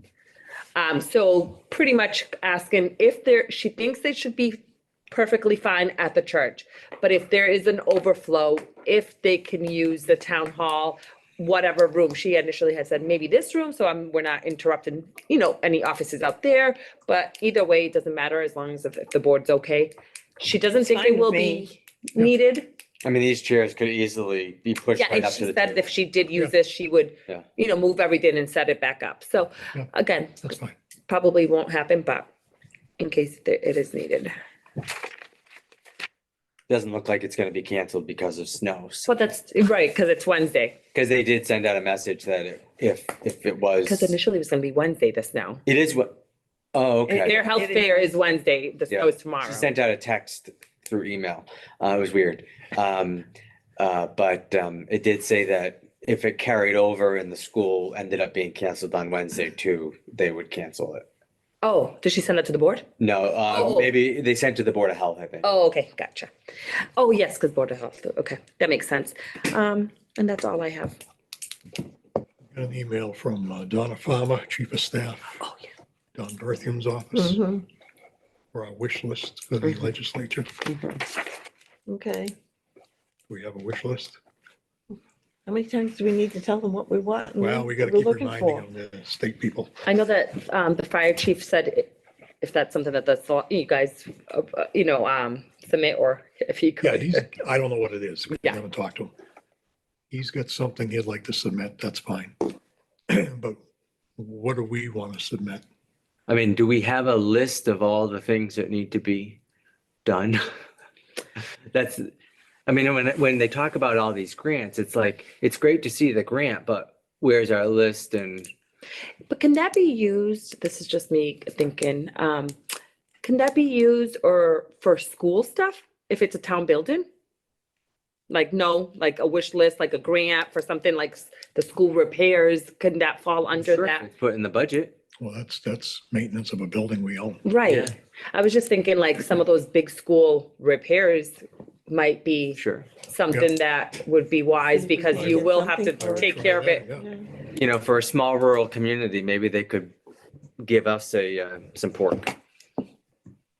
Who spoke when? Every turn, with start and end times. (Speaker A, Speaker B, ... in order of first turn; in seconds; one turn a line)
Speaker A: 0.8-22.7
Speaker B: 20.8-21.7
Speaker C: 23.0-25.8
Speaker A: 24.9-30.5
Speaker D: 30.4-30.7
Speaker A: 31.1-32.3
Speaker A: 33.0-34.3
Speaker C: 36.7-39.1
Speaker A: 39.0-40.8
Speaker C: 40.9-44.1
Speaker A: 43.8-45.6
Speaker C: 45.6-46.2
Speaker C: 46.7-47.4
Speaker B: 47.1-48.2
Speaker A: 47.2-49.7
Speaker C: 48.9-61.0
Speaker A: 61.6-62.9
Speaker C: 63.0-65.5
Speaker A: 63.5-63.9
Speaker A: 65.4-66.3
Speaker A: 67.0-71.0
Speaker D: 72.5-75.4
Speaker A: 75.4-75.7
Speaker D: 76.1-77.4
Speaker B: 77.1-77.6
Speaker D: 78.5-80.7
Speaker B: 81.9-82.3
Speaker D: 83.3-84.2
Speaker B: 85.5-88.7
Speaker D: 87.4-89.7
Speaker A: 89.8-97.2
Speaker D: 96.8-99.1
Speaker D: 100.1-102.5
Speaker D: 103.1-103.6
Speaker D: 104.2-105.6
Speaker C: 106.3-109.4
Speaker C: 110.0-110.4
Speaker C: 111.7-112.1
Speaker C: 112.7-118.5
Speaker A: 119.3-122.5
Speaker A: 123.2-127.0
Speaker A: 128.3-134.1
Speaker C: 133.6-134.9
Speaker D: 135.2-137.4
Speaker A: 137.4-146.8
Speaker C: 137.6-137.9
Speaker C: 142.5-142.9
Speaker B: 144.7-147.2
Speaker D: 145.1-147.1
Speaker C: 147.5-149.9
Speaker C: 150.6-152.3